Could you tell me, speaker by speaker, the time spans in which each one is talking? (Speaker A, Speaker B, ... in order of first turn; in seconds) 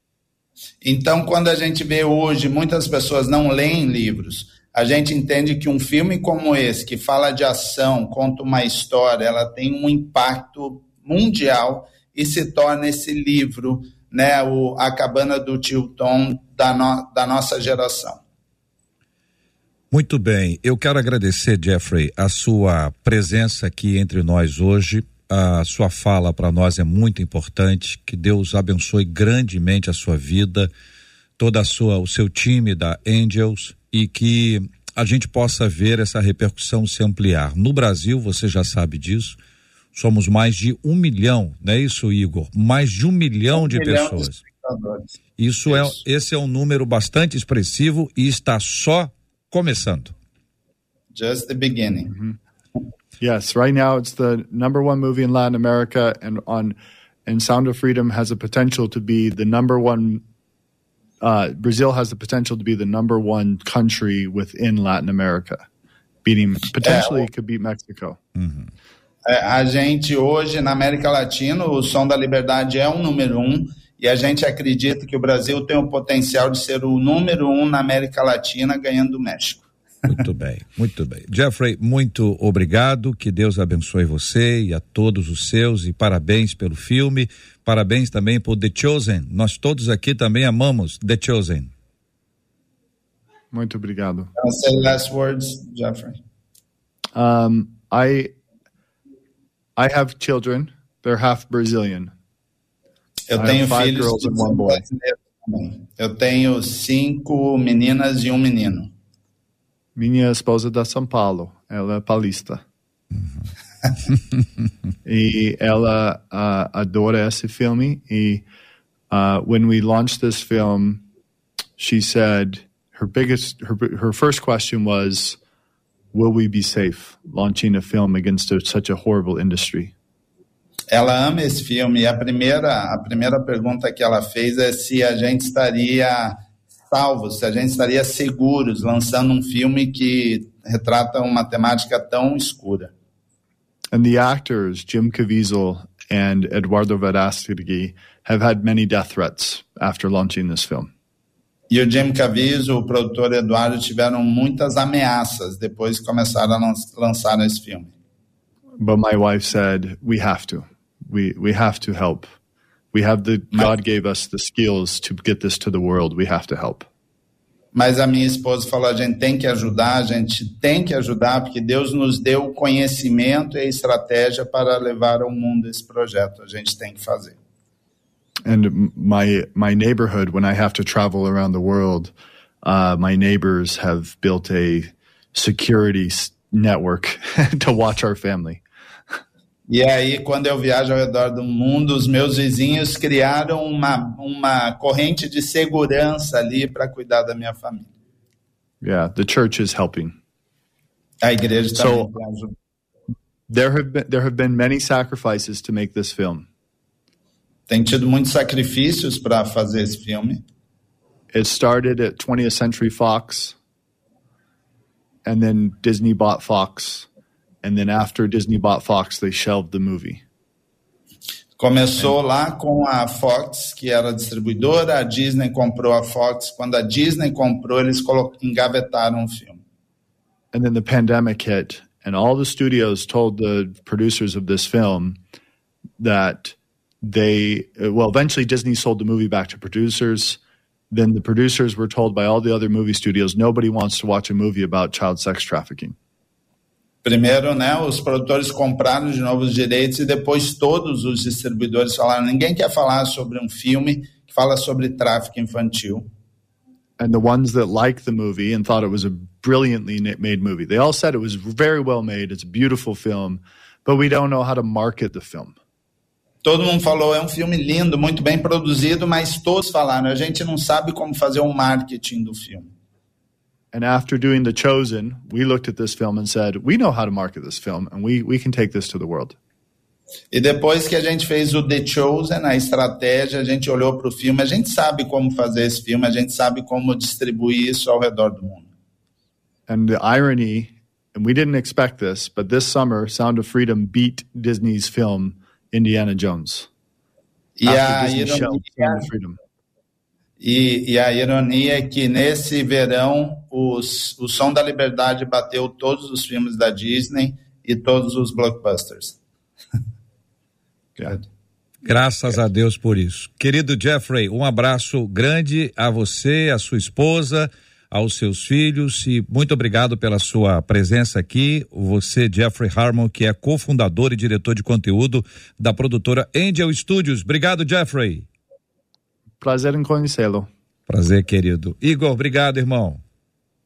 Speaker A: 0.8-18.2, 43.5-45.1, 45.7-46.0, 51.1-52.1, 66.8-67.2, 69.2-79.6, 94.4-96.2, 103.3-108.9, 130.9-142.9, 151.7-157.9, 167.7-177.3, 189.7-197.9, 201.2-202.5, 207.7-210.4, 221.6-229.6, 247.0-256.1, 266.4-272.7, 280.3-288.6, 297.6-299.0, 300.4-309.1
Speaker B: 19.9-30.7, 31.4-39.4, 39.9-44.4, 45.4-50.1, 68.4-68.6, 80.0-91.7, 311.8-328.2, 330.9-333.0
Speaker C: 53.2-60.2, 61.2-65.6, 66.2-68.2, 93.5-94.3, 97.1-98.3, 99.8-102.1, 103.3-104.8, 110.0-112.6, 115.0-118.4, 119.1-121.0, 121.8-125.4, 126.1-129.9, 143.9-150.9, 158.8-162.2, 162.9-166.9, 178.4-188.6, 198.8-200.2, 201.7-202.1, 203.5-206.4, 211.3-213.5, 215.2-217.1, 217.6-220.2, 230.5-235.2, 236.0-240.4, 240.9-245.9, 257.0-265.5, 273.7-279.4, 289.7-296.7, 297.6-299.4, 329.4-330.5